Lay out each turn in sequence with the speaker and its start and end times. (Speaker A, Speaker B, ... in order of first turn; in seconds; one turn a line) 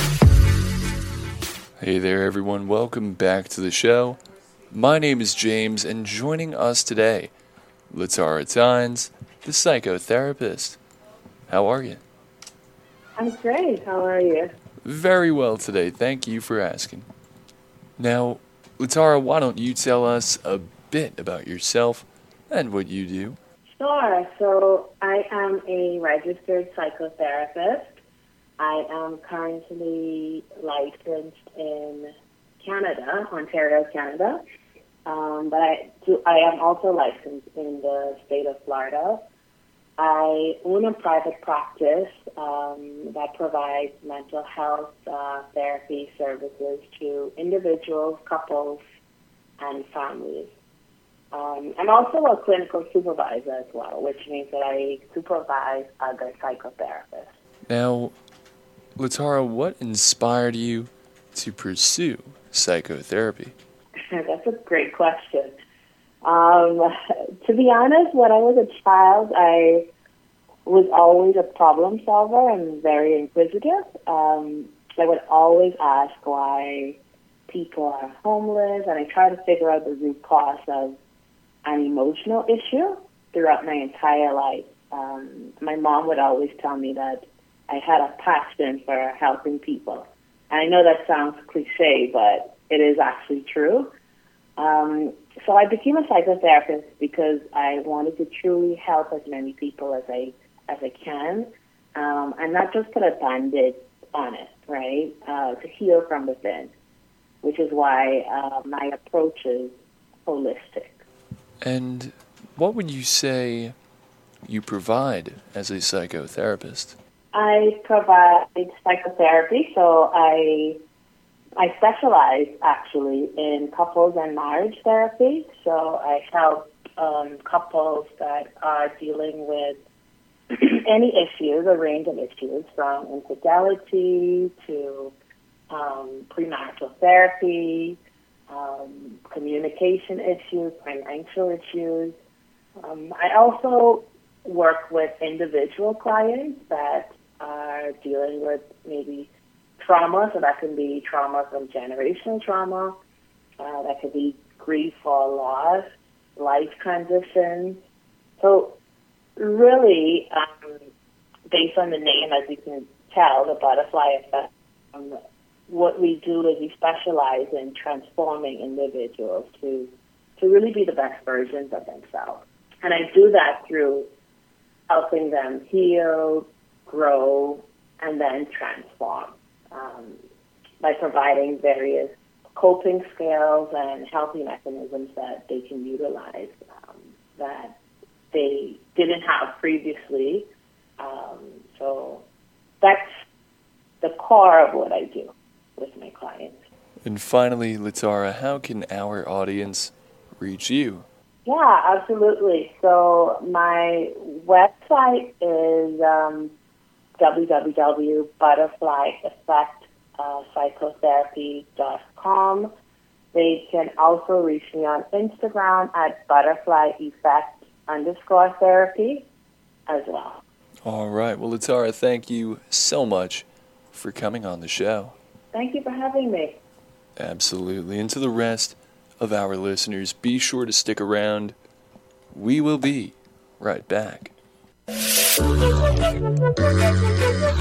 Speaker A: 1.8-7.3
Speaker A: 7.9-10.8
Speaker A: 11.5-12.0
Speaker B: 13.2-14.5
Speaker A: 14.8-17.1
Speaker A: 18.0-23.4
Speaker B: 23.7-28.0
Speaker B: 28.6-34.4
Speaker B: 35.0-39.2
Speaker B: 40.0-48.8
Speaker B: 49.6-50.5
Speaker B: 51.3-57.4
Speaker A: 57.7-58.1
Speaker A: 59.0-63.5
Speaker B: 64.1-65.5
Speaker B: 66.2-69.9
Speaker B: 70.7-81.0
Speaker B: 81.7-93.9
Speaker B: 94.6-106.7
Speaker B: 107.4-111.0
Speaker A: 111.6-113.8
Speaker A: 114.5-117.0
Speaker B: 117.3-120.8
Speaker B: 121.6-129.8
Speaker B: 130.5-135.2
Speaker B: 135.7-138.0
Speaker B: 138.5-142.2
Speaker B: 142.8-153.0
Speaker B: 153.6-155.8
Speaker B: 156.4-157.8
Speaker B: 158.4-158.8
Speaker B: 159.4-160.8
Speaker B: 161.5-174.1
Speaker B: 174.9-180.2
Speaker B: 180.8-187.8
Speaker B: 188.3-190.5
Speaker B: 191.0-192.3
Speaker B: 192.8-193.1
Speaker B: 194.0-196.6
Speaker A: 197.0-201.1
Speaker B: 201.4-206.5
Speaker B: 207.2-212.7
Speaker B: 213.3-219.3
Speaker B: 219.9-220.4
Speaker A: 220.8-225.2
Speaker B: 225.5-226.6
Speaker A: 227.2-231.6
Speaker A: 232.3-234.3